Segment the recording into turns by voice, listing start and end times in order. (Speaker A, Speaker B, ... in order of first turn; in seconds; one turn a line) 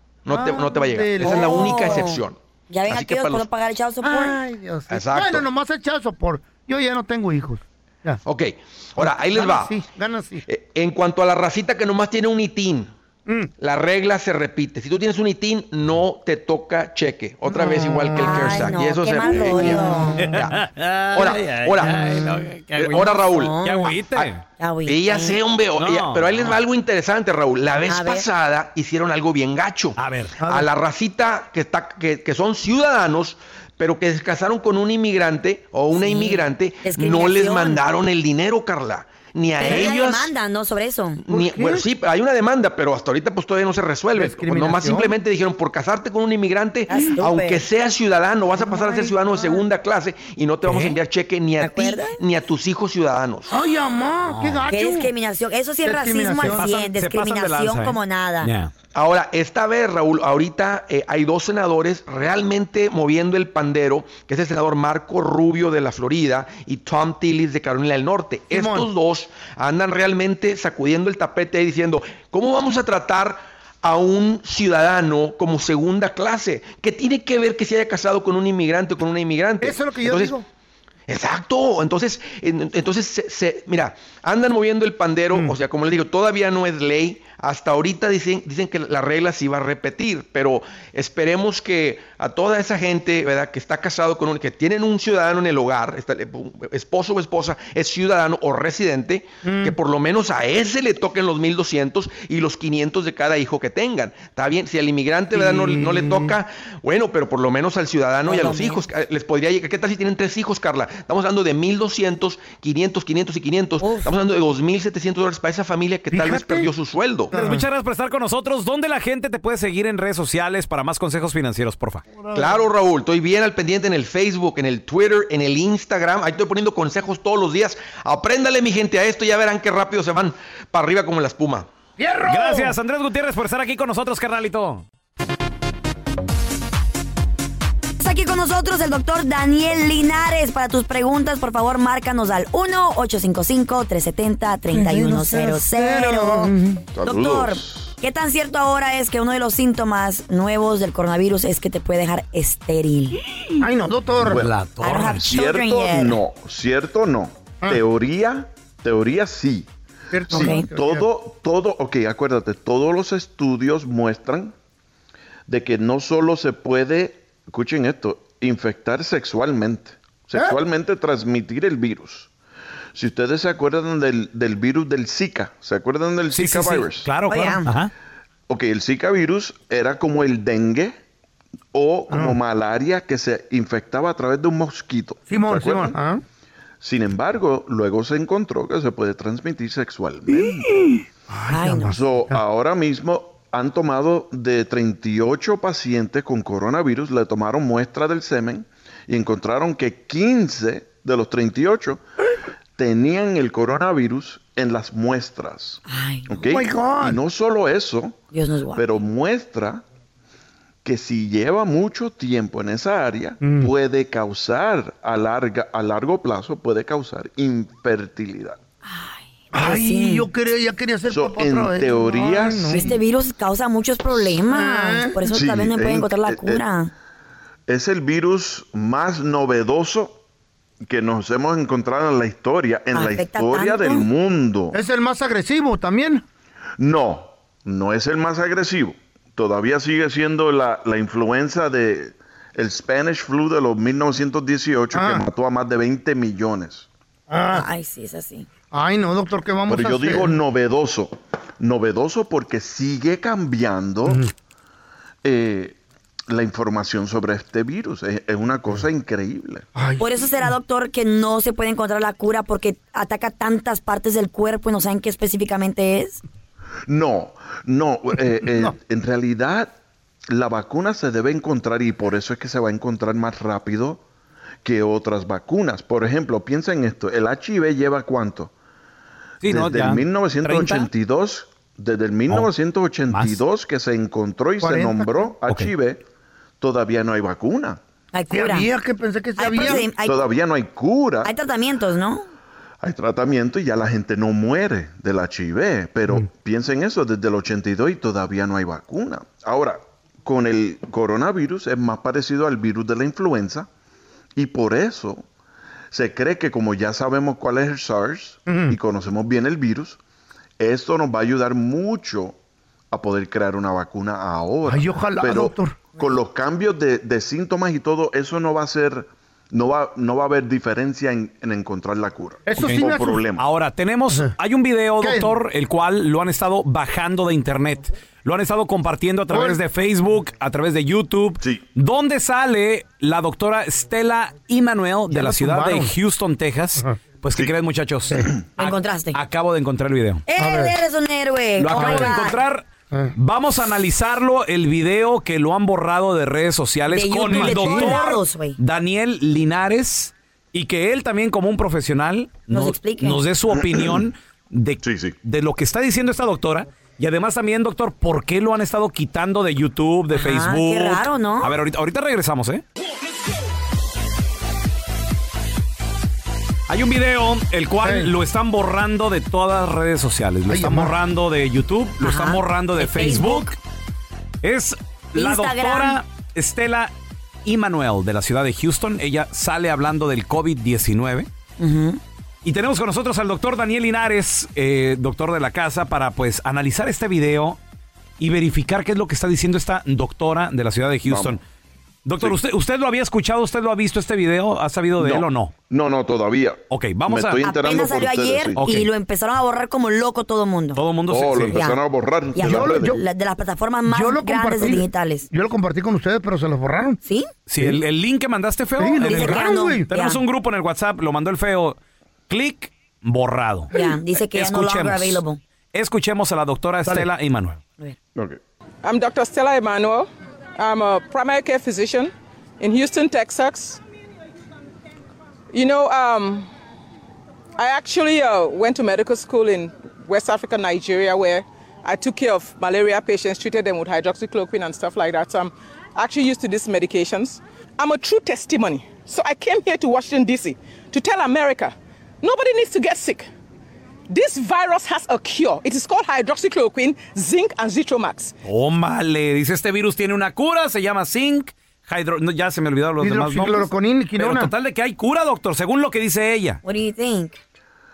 Speaker A: 0.2-3.5
Speaker B: 0.3-1.9
Speaker C: 1.2-4.4
Speaker B: 4.0-8.2
Speaker A: 4.9-5.4
Speaker A: 8.2-9.7
Speaker B: 9.0-10.4
Speaker A: 10.5-12.9
Speaker A: 13.6-20.6
Speaker B: 17.5-18.7
Speaker C: 17.6-20.2
Speaker B: 19.5-20.1
Speaker D: 20.2-24.4
Speaker A: 21.1-22.1
Speaker A: 22.7-23.6
Speaker C: 23.3-23.9
Speaker C: 24.6-25.4
Speaker A: 24.9-40.3
Speaker D: 25.8-26.6
Speaker C: 27.9-28.2
Speaker D: 30.0-30.4
Speaker B: 30.4-30.7
Speaker C: 35.9-37.8
Speaker C: 39.6-41.2
Speaker A: 41.2-53.5
Speaker B: 41.3-41.8
Speaker B: 44.1-45.1
Speaker C: 46.9-47.6
Speaker B: 48.6-49.6
Speaker D: 50.6-51.0
Speaker C: 51.6-52.2
Speaker B: 53.5-55.1
Speaker D: 54.2-54.6
Speaker C: 54.7-58.5
Speaker B: 55.8-56.7
Speaker D: 56.4-58.7
Speaker A: 58.9-80.3
Speaker B: 68.5-68.9
Speaker B: 79.6-80.5
Speaker A: 81.1-117.3
Speaker B: 85.3-85.6
Speaker B: 99.4-99.8
Speaker B: 105.3-106.3
Speaker C: 108.2-108.8
Speaker C: 113.8-114.1
Speaker B: 116.1-116.7
Speaker B: 117.3-117.6
Speaker D: 117.3-122.0
Speaker B: 122.2-122.6
Speaker A: 122.3-131.7
Speaker B: 132.0-132.7
Speaker D: 132.2-134.8
Speaker C: 138.0-146.5
Speaker B: 144.7-146.8
Speaker E: 146.9-147.9
Speaker C: 147.0-153.2
Speaker B: 153.6-154.5
Speaker D: 154.2-155.2
Speaker C: 154.8-156.2
Speaker E: 155.1-159.7
Speaker B: 160.1-161.1
Speaker E: 160.3-164.5
Speaker C: 160.3-160.7
Speaker E: 165.5-172.3
Speaker B: 170.3-170.6
Speaker E: 172.9-177.1
Speaker D: 176.3-177.9
Speaker C: 177.3-177.7
Speaker E: 178.5-180.9
Speaker E: 181.7-185.9
Speaker B: 182.1-182.4
Speaker B: 185.3-186.2
Speaker E: 186.8-190.7
Speaker B: 190.3-192.4
Speaker C: 191.5-191.9
Speaker E: 191.9-202.0
Speaker E: 202.8-208.2
Speaker C: 205.9-206.4
Speaker B: 206.5-207.2
Speaker C: 208.3-209.0
Speaker E: 208.7-209.8
Speaker E: 210.8-218.6
Speaker B: 213.4-213.7
Speaker C: 218.8-220.3
Speaker B: 219.5-223.0
Speaker E: 221.1-222.9
Speaker C: 222.7-226.9
Speaker B: 224.2-225.2
Speaker E: 225.2-226.6
Speaker E: 227.7-230.2
Speaker E: 230.8-234.8
Speaker C: 232.9-234.1
Speaker B: 234.7-236.2
Speaker E: 236.8-246.9
Speaker B: 244.9-245.2
Speaker B: 247.3-247.7
Speaker C: 247.5-248.5
Speaker B: 248.7-250.4
Speaker E: 249.7-254.2
Speaker E: 255.2-259.6
Speaker B: 259.7-260.5
Speaker C: 260.0-266.2
Speaker E: 266.9-269.7
Speaker B: 268.4-268.7
Speaker E: 270.3-274.0
Speaker E: 274.6-278.5
Speaker D: 279.4-280.9
Speaker E: 279.4-286.0
Speaker D: 283.1-283.4
Speaker B: 284.6-285.3
Speaker E: 286.6-287.8
Speaker C: 288.1-288.7
Speaker B: 288.3-289.9
Speaker C: 289.4-290.2
Speaker E: 289.5-291.3
Speaker C: 291.2-292.3
Speaker E: 292.8-303.7
Speaker E: 304.4-305.2
Speaker E: 305.9-310.0
Speaker B: 308.5-308.8
Speaker E: 310.6-312.4
Speaker E: 312.9-323.4
Speaker B: 314.6-315.8
Speaker B: 322.5-323.2
Speaker D: 323.4-340.2
Speaker B: 325.0-325.3
Speaker B: 329.3-329.6
Speaker B: 335.1-335.9
Speaker C: 338.6-339.2
Speaker C: 340.3-342.4
Speaker B: 340.4-340.8
Speaker D: 341.6-362.6
Speaker B: 341.7-342.1
Speaker C: 346.9-348.6
Speaker B: 347.3-348.1
Speaker C: 352.5-353.2
Speaker E: 353.5-354.1
Speaker E: 354.8-355.1
Speaker C: 360.1-361.5
Speaker D: 366.7-373.6
Speaker B: 367.8-368.1
Speaker B: 370.5-370.9
Speaker C: 372.0-373.5
Speaker D: 374.4-376.9
Speaker C: 375.1-376.0
Speaker D: 377.4-381.3
Speaker C: 381.6-382.0
Speaker D: 382.4-387.6
Speaker D: 388.2-391.4
Speaker E: 391.0-391.4
Speaker D: 392.0-395.5
Speaker E: 395.0-398.7
Speaker D: 396.7-397.4
Speaker C: 397.4-400.8
Speaker D: 398.6-398.9
Speaker D: 400.8-401.6
Speaker E: 401.1-402.9
Speaker C: 401.5-401.8
Speaker C: 402.3-405.3
Speaker B: 402.4-403.0
Speaker B: 403.9-407.0
Speaker C: 407.0-407.3
Speaker D: 407.5-411.8
Speaker B: 408.8-409.9
Speaker C: 409.1-410.2
Speaker D: 412.3-413.7
Speaker C: 413.7-415.4
Speaker D: 414.3-415.2
Speaker D: 415.7-417.6
Speaker F: 418.8-423.8
Speaker F: 425.5-426.5
Speaker F: 427.6-443.3
Speaker F: 444.1-448.3
Speaker D: 448.4-456.6
Speaker B: 453.0-454.5
Speaker C: 456.6-457.4